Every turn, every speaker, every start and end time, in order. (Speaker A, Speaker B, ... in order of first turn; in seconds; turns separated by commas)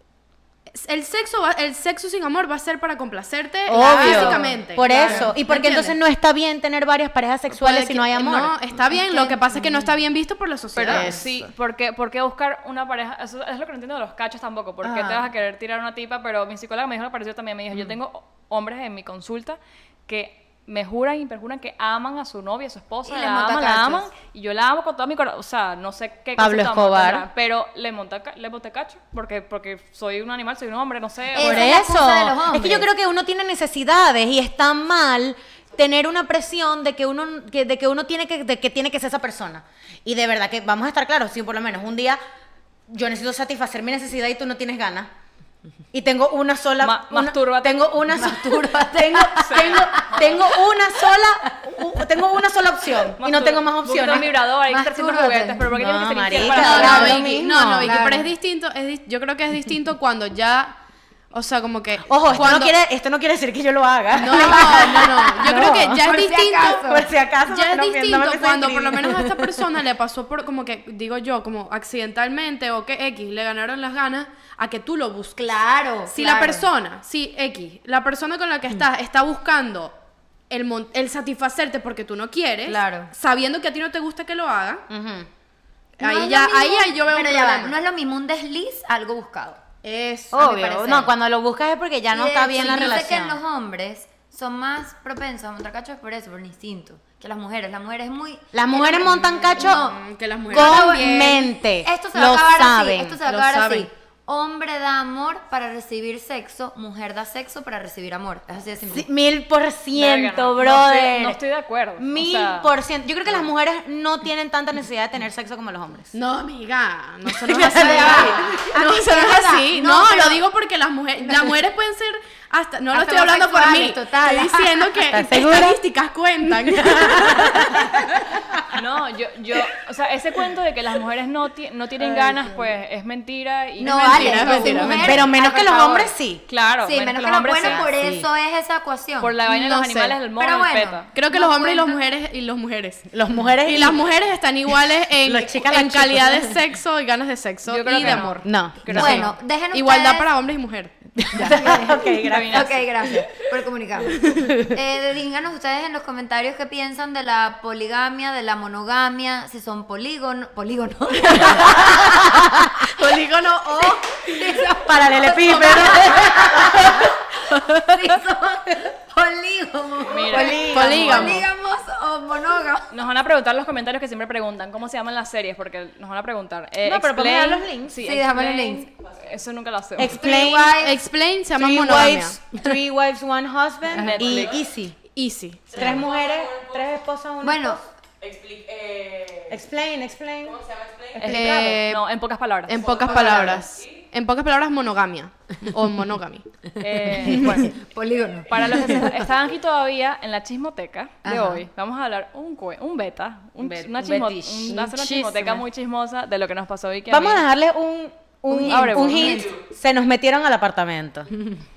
Speaker A: 0.7-5.4, Speaker B: 3.7-5.9, Speaker C: 3.7-8.6, Speaker A: 7.5-11.1, Speaker B: 8.8-9.9, Speaker D: 10.8-31.7, Speaker C: 10.9-11.5, Speaker B: 14.8-15.3, Speaker B: 23.1-24.1, Speaker C: 26.4-27.3, Speaker B: 31.3-32.9, Speaker C: 31.4-42.2, Speaker C: 42.9-45.1, Speaker C: 45.9-54.3, Speaker D: 46.8-48.0, Speaker B: 48.1-50.5, Speaker D: 49.4-49.8, Speaker D: 53.2-57.2, Speaker B: 54.7-55.8, Speaker C: 55.6-58.0, Speaker B: 56.3-58.3, Speaker A: 56.5-60.8, Speaker A: 61.3-62.7, Speaker C: 62.0-69.7, Speaker A: 64.1-66.8, Speaker B: 64.4-67.1, Speaker A: 67.5-75.5, Speaker B: 75.4-76.7, Speaker A: 76.1-79.9, Speaker A: 80.5-84.8, Speaker B: 82.7-83.1, Speaker C: 84.9-85.3, Speaker A: 86.0-87.8, Speaker B: 86.0-89.6, Speaker A: 89.8-91.0, Speaker C: 90.3-93.4, Speaker B: 90.3-91.1, Speaker B: 92.1-109.1, Speaker C: 98.5-99.8, Speaker A: 99.5-101.5, Speaker C: 100.5-103.2, Speaker A: 103.2-103.9, Speaker C: 108.9-111.4, Speaker D: 109.9-112.7, Speaker C: 112.0-116.1, Speaker A: 116.1-128.4, Speaker C: 117.3-118.5, Speaker B: 117.7-120.4, Speaker B: 121.2-121.6, Speaker B: 122.9-125.0, Speaker C: 125.1-125.8, Speaker C: 126.6-128.3, Speaker D: 128.7-137.9, Speaker A: 132.3-132.7, Speaker B: 133.8-136.1, Speaker A: 133.8-135.1, Speaker C: 134.2-136.4, Speaker B: 136.8-139.4, Speaker C: 137.6-138.3, Speaker D: 139.2-141.1, Speaker A: 139.4-140.2, Speaker B: 140.4-142.1, Speaker A: 141.1-143.1, Speaker C: 143.1-144.0, Speaker A: 143.6-150.9, Speaker C: 145.2-146.5, Speaker D: 147.7-149.2, Speaker C: 148.0-149.3, Speaker B: 148.9-150.3, Speaker C: 151.2-153.1, Speaker B: 151.3-163.2, Speaker D: 152.2-152.8, Speaker C: 154.3-154.6, Speaker C: 161.4-162.9, Speaker A: 163.0-164.0, Speaker B: 164.1-172.9, Speaker C: 164.4-168.2, Speaker D: 170.1-171.4, Speaker C: 170.2-171.4, Speaker A: 170.6-171.4, Speaker D: 172.9-180.2, Speaker C: 176.8-178.0, Speaker B: 178.0-178.8, Speaker E: 179.0-179.4, Speaker C: 180.0-180.7, Speaker B: 180.1-181.1, Speaker A: 180.3-182.4, Speaker C: 181.5-184.9, Speaker D: 183.9-184.5, Speaker E: 184.1-184.7, Speaker A: 185.1-185.9, Speaker E: 185.7-186.9, Speaker C: 185.7-187.8, Speaker B: 187.4-187.8, Speaker E: 188.2-189.6, Speaker C: 189.5-190.6, Speaker E: 190.4-191.3, Speaker C: 191.1-191.8, Speaker D: 191.2-193.1, Speaker A: 191.3-192.0, Speaker A: 192.7-196.4, Speaker E: 192.7-194.1, Speaker B: 193.1-193.7, Speaker D: 196.8-197.8, Speaker B: 197.2-199.1, Speaker D: 198.5-207.4, Speaker B: 201.2-201.7, Speaker C: 203.6-204.9, Speaker B: 204.7-205.6, Speaker C: 207.1-211.3, Speaker D: 208.5-209.5, Speaker B: 208.5-209.5, Speaker E: 209.2-209.6